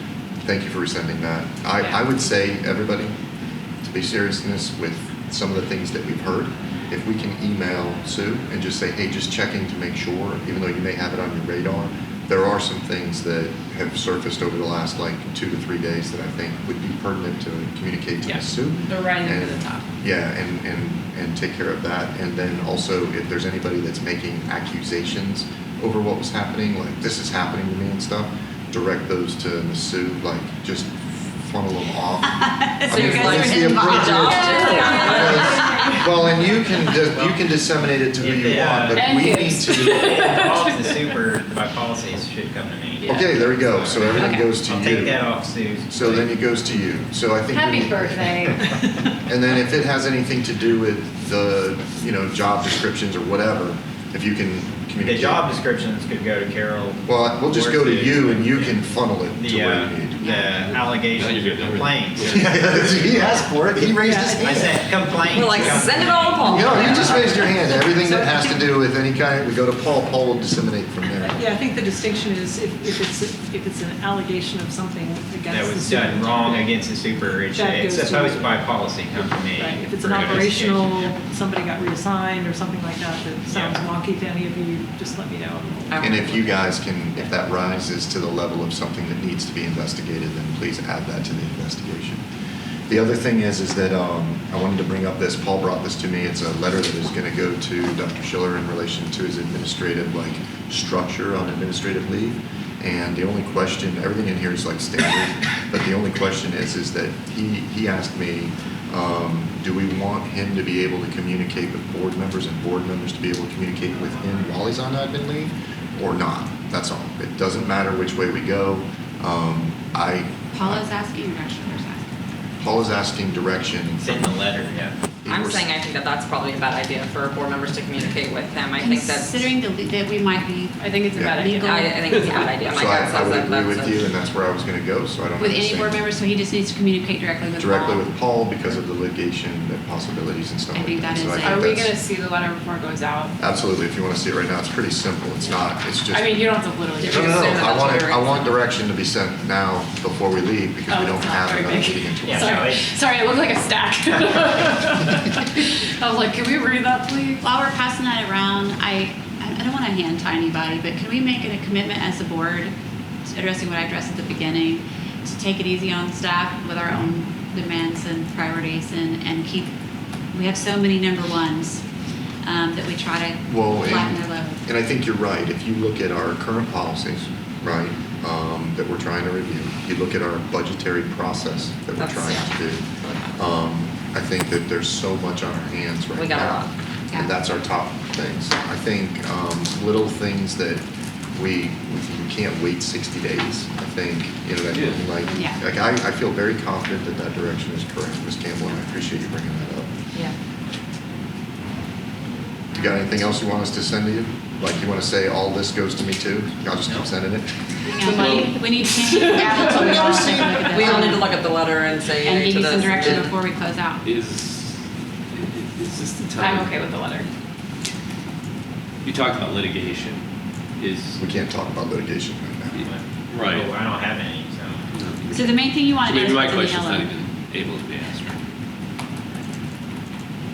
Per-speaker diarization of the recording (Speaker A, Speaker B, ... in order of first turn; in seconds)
Speaker A: 0.4-3.1, 3.8-40.1, 43.1-45.4, 45.9-55.5, 57.1-60.2, 62.3-64.9, 66.4-71.4, 86.0-92.2, 92.9-120.8, 122.6-124.4, 125.2-125.7, 131.2-131.5, 132.7-136.1, 137.6-141.9, 143.4-146.5, 147.0-152.7, 173.5-190.8, 191.3-199.9, 202.7-207.5, 208.1-208.5, 209.5-211.1, 213.0-213.3, 221.2-222.8
Speaker B: 19.0-19.7, 38.9-41.1, 43.0-43.6, 44.2-44.6, 47.5-48.7, 130.8-131.9, 141.4-143.4, 146.1-147.8, 150.9-157.4, 208.1-210.6, 216.4-217.3
Speaker C: 32.2-36.1, 60.2-60.8, 120.5-122.2, 128.8-130.8, 131.3-132.1, 135.4-138.1, 140.7-141.7, 157.4-162.7, 163.3-169.7, 170.3-171.8, 172.4-174.6, 195.3-195.6, 207.8-211.3, 212.2-214.0, 225.3-227.1
Speaker D: 32.9-35.8, 65.3-67.4, 85.9-86.4, 125.3-129.5, 131.6-134.1, 147.0-148.5, 182.0-183.4, 186.2-186.7, 210.7-213.3
Speaker E: 37.1-37.4, 38.2-39.1, 39.9-46.3, 55.0-66.9, 75.5-81.2, 83.5-83.8, 124.0-125.0, 152.2-152.9, 222.8-224.9
Speaker F: 61.1-63.2, 80.2-80.5, 132.2-132.6, 194.7-195.1, 214.0-216.9, 219.0-220.2, 220.8-221.2, 222.8-223.7, 224.9-228.4
Speaker G: 64.0-64.7, 65.5-65.9, 67.3-68.8, 71.2-76.8, 77.5-87.3